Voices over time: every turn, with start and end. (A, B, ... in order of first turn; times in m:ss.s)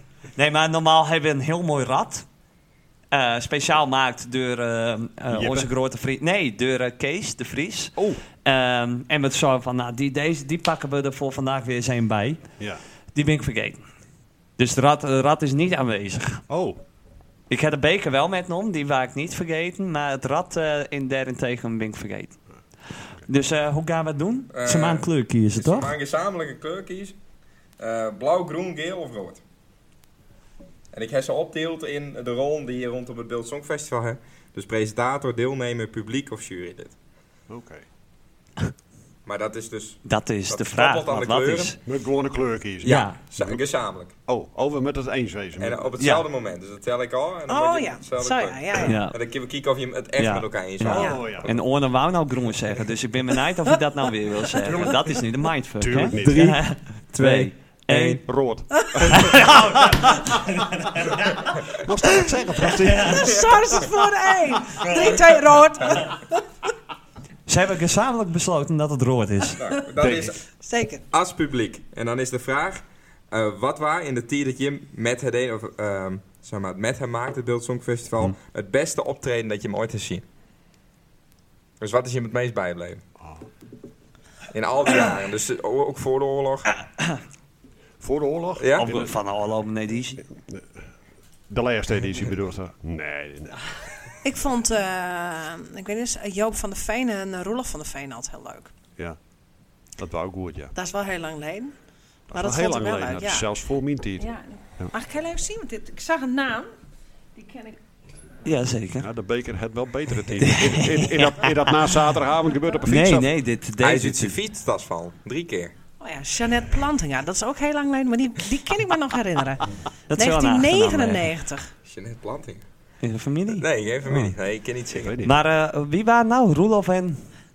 0:00.4-0:02.2 A
0:03.1-0:12.4 A
0:05.3-0:05.7 B
0:13.1-0:13.8 A
0:14.6-0:16.4 A
0:16.5-0:16.8 B
0:17.5-0:22.4 A
0:23.2-0:25.9 A
0:24.5-0:27.2 C
0:27.8-0:29.4 C
0:30.9-0:36.9 C
0:37.5-0:37.8 B
0:39.2-0:41.8 C
0:40.0-0:41.8 A
0:41.8-0:43.6 B
0:42.8-0:44.1 C
0:42.8-0:43.2 A
0:44.3-0:45.9 B
0:45.6-0:51.6 C
0:46.0-0:46.2 A
0:47.5-0:49.0 D
0:48.8-0:49.2 A
0:50.2-0:58.2 A
0:50.8-0:51.5 B
0:54.6-0:55.2 B
0:55.8-1:00.3 B
0:59.1-1:00.1 A
1:01.7-1:03.4 B
1:02.8-1:03.2 A
1:03.0-1:06.2 D
1:07.5-1:10.2 A
1:09.6-1:10.4 C
1:10.0-1:11.0 D
1:11.1-1:20.2 C
1:21.8-1:23.0 C
1:23.2-1:23.4 B
1:24.5-1:26.8 C
1:28.0-1:29.1 B
1:28.6-1:28.9 C
1:28.8-1:30.2 A
1:31.5-1:33.7 B
1:34.2-1:38.7 D
1:40.0-1:40.7 B
1:40.7-1:41.8 D
1:42.3-1:44.9 B
1:42.3-1:43.6 D
1:44.2-1:46.7 D
1:47.3-1:47.8 D
1:48.4-1:49.1 A
1:49.0-1:53.4 B
1:50.4-1:51.5 A
1:52.8-1:54.4 A
1:53.8-1:55.7 C
1:56.0-2:01.7 D
2:00.1-2:01.3 A
2:01.9-2:02.6 C
2:03.0-2:03.6 A
2:03.6-2:05.2 C
2:04.0-2:04.3 B
2:04.9-2:05.4 B
2:05.2-2:07.2 A